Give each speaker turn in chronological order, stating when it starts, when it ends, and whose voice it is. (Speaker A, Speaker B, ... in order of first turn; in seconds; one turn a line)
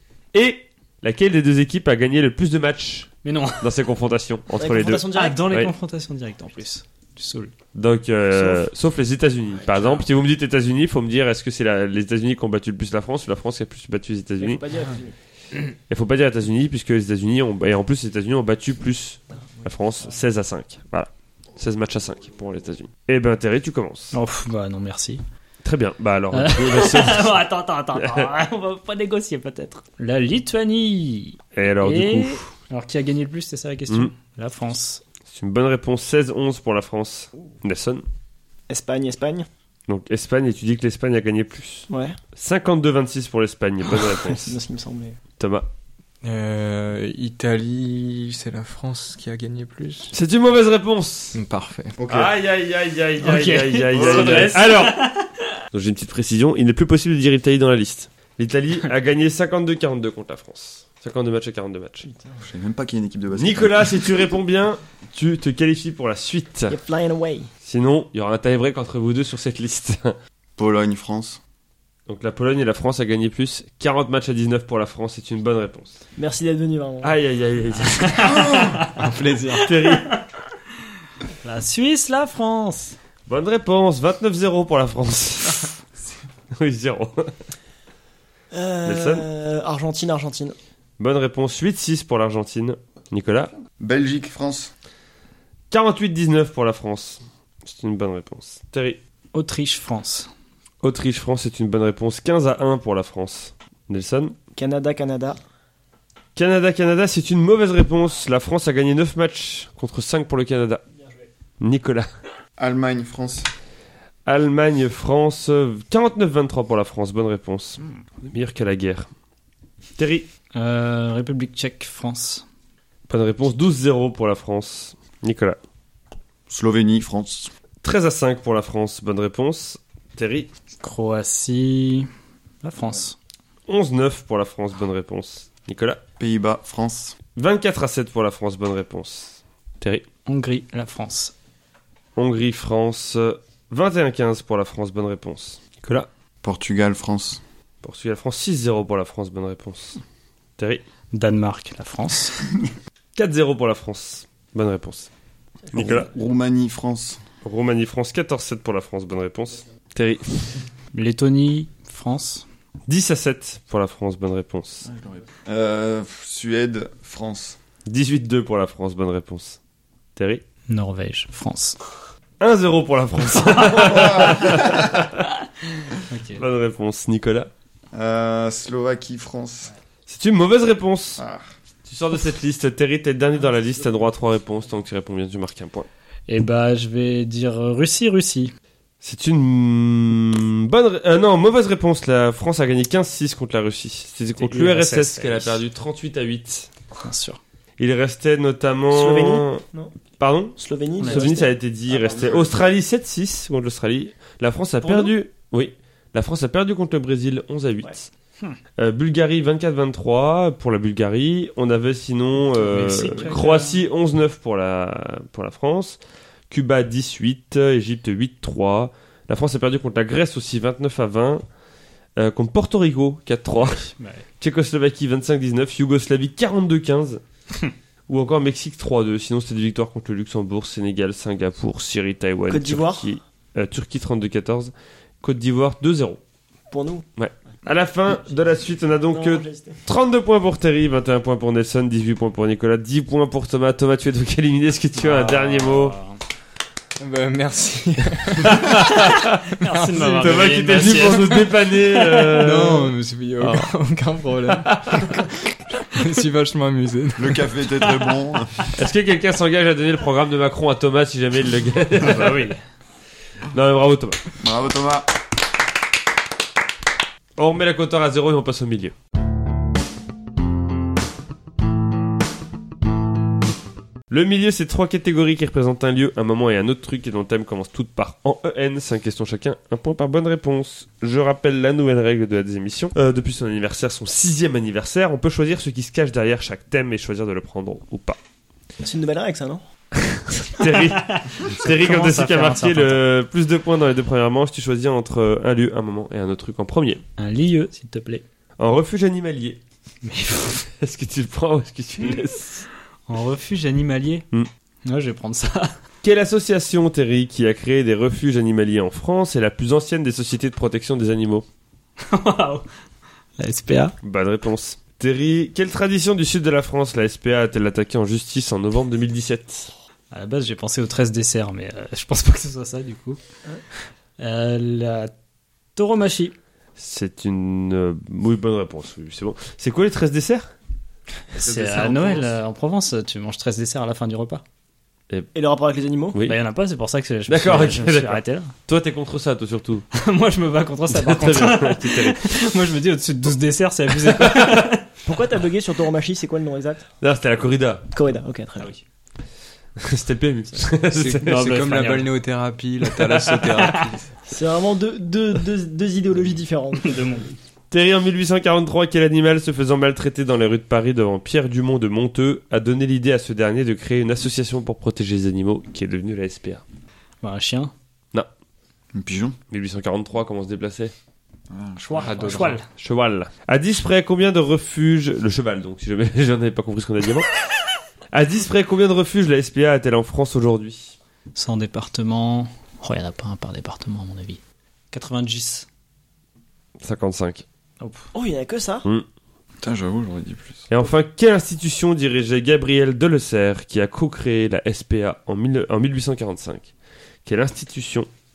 Speaker A: 0.3-5.7
Speaker B: 3.2-3.7
Speaker C: 4.6-5.4
Speaker B: 5.1-7.5
Speaker A: 7.8-14.6
Speaker C: 8.3-8.7
Speaker C: 14.4-15.2
Speaker A: 15.9-24.2
Speaker B: 24.1-25.2
Speaker A: 25.6-27.4
Speaker B: 26.3-35.0
Speaker A: 28.0-28.3
Speaker A: 31.6-32.5
Speaker A: 33.9-34.1
Speaker A: 35.3-38.0
Speaker C: 38.7-39.5
Speaker A: 39.9-44.6
Speaker C: 41.9-42.2
Speaker C: 43.9-45.2
Speaker A: 45.4-45.7
Speaker D: 46.2-50.1
Speaker A: 50.1-51.4
Speaker D: 51.3-52.0
Speaker E: 52.0-52.4
Speaker A: 52.1-55.1
Speaker B: 53.2-55.3
Speaker E: 53.9-54.6
Speaker A: 55.7-62.1
Speaker C: 62.1-62.4
Speaker E: 62.4-64.2
Speaker A: 63.3-66.8
Speaker C: 66.7-67.5
Speaker A: 67.6-70.2
Speaker E: 70.6-71.4
Speaker A: 72.1-76.0
Speaker C: 76.2-77.2
Speaker A: 77.0-78.5
Speaker B: 78.0-78.9
Speaker E: 78.2-78.8
Speaker D: 78.9-79.7
Speaker A: 79.6-80.1
Speaker B: 79.9-80.2
Speaker B: 81.4-83.0
Speaker A: 83.3-85.7
Speaker A: 86.5-87.3
Speaker C: 88.5-90.6
Speaker A: 88.8-89.3
Speaker A: 91.0-93.5
Speaker E: 93.8-94.7
Speaker A: 95.7-99.0
Speaker B: 99.3-100.3
Speaker A: 100.8-104.3
Speaker C: 104.5-105.4
Speaker A: 106.4-110.8
Speaker A: 111.6-112.1
Speaker E: 112.6-113.5
Speaker A: 114.3-119.1
Speaker A: 120.0-120.3
Speaker B: 120.5-122.5
Speaker A: 123.1-125.6
Speaker E: 126.5-127.5
Speaker A: 127.8-130.5
Speaker B: 130.8-132.1
Speaker B: 132.6-133.2
Speaker A: 133.7-136.0
Speaker E: 136.2-137.2
Speaker A: 137.4-140.1
Speaker B: 140.3-141.3
Speaker A: 142.2-146.1
Speaker E: 146.4-147.4
Speaker A: 147.8-150.0
Speaker A: 150.6-150.8
Speaker B: 151.1-152.4
Speaker A: 153.2-155.1
Speaker A: 155.7-156.1
Speaker E: 155.7-157.2
Speaker A: 157.4-160.6
Speaker B: 160.9-162.4
Speaker A: 162.9-164.9
Speaker E: 165.4-167.6
Speaker A: 167.9-169.6
Speaker A: 170.2-170.4
Speaker B: 170.7-171.8
Speaker A: 172.4-175.3
Speaker E: 173.6-175.0
Speaker B: 176.1-176.4
Speaker A: 176.3-177.5
Speaker E: 177.9-179.7
Speaker A: 180.1-181.2
Speaker E: 181.2-181.4
Speaker A: 181.9-185.9
Speaker B: 186.3-188.5
Speaker A: 189.0-196.7
Speaker B: 194.4-195.6
Speaker B: 197.0-197.4
Speaker A: 197.8-199.6
Speaker C: 198.9-199.9
Speaker A: 200.2-208.1
Speaker C: 200.6-201.5
Speaker B: 201.0-201.3
Speaker E: 201.9-202.6
Speaker A: 208.8-216.0
Speaker B: 212.5-213.8
Speaker A: 216.5-221.4
Speaker A: 222.2-227.2
Speaker B: 223.7-224.2
Speaker A: 228.1-236.2
Speaker C: 232.5-233.1
Speaker C: 236.7-237.1
Speaker A: 237.2-246.0
Speaker C: 239.1-239.8
Speaker B: 245.0-246.2
Speaker D: 247.0-248.8
Speaker A: 248.4-249.4
Speaker B: 249.6-251.5
Speaker D: 249.6-251.2
Speaker A: 250.0-252.9
Speaker D: 252.2-257.6
Speaker A: 254.5-255.2
Speaker E: 257.2-258.7
Speaker A: 258.8-262.5
Speaker B: 262.0-262.6
Speaker A: 263.5-264.2
Speaker E: 264.4-265.1
Speaker A: 267.4-268.9
Speaker A: 274.1-288.2
Speaker C: 288.8-289.6
Speaker A: 290.1-297.0
Speaker B: 290.7-293.0
Speaker B: 297.2-298.2
Speaker A: 298.6-299.6
Speaker B: 300.0-300.6
Speaker A: 300.7-302.7
Speaker B: 303.1-304.2
Speaker B: 304.9-305.7
Speaker A: 306.0-311.4
Speaker B: 312.0-312.6
Speaker B: 313.4-314.0
Speaker A: 314.0-319.7
Speaker B: 320.1-323.2
Speaker B: 324.2-325.1
Speaker B: 325.8-326.4
Speaker A: 326.8-330.5
Speaker B: 331.3-334.4
Speaker E: 331.4-332.3
Speaker C: 335.3-336.2
Speaker A: 336.1-336.4
Speaker B: 336.3-338.5
Speaker A: 337.3-339.9
Speaker B: 339.9-344.9
Speaker A: 340.9-342.4
Speaker A: 344.1-344.7
Speaker C: 345.0-346.9
Speaker A: 347.0-347.9
Speaker C: 347.9-348.7
Speaker A: 349.8-351.9
Speaker D: 350.9-354.1
Speaker B: 351.3-352.1
Speaker B: 353.1-353.9
Speaker C: 354.3-357.0
Speaker B: 356.8-357.3
Speaker A: 357.7-366.6
Speaker B: 367.2-367.7
Speaker E: 368.9-369.4
Speaker A: 369.5-370.9
Speaker E: 371.5-372.4
Speaker B: 371.9-372.7
Speaker D: 372.0-372.6
Speaker A: 372.8-377.3
Speaker A: 378.1-381.0
Speaker B: 381.4-384.4
Speaker B: 384.9-385.7
Speaker A: 386.8-387.4
Speaker B: 387.8-388.1
Speaker C: 388.1-388.9
Speaker E: 389.6-390.7
Speaker A: 390.7-396.7
Speaker A: 397.2-398.1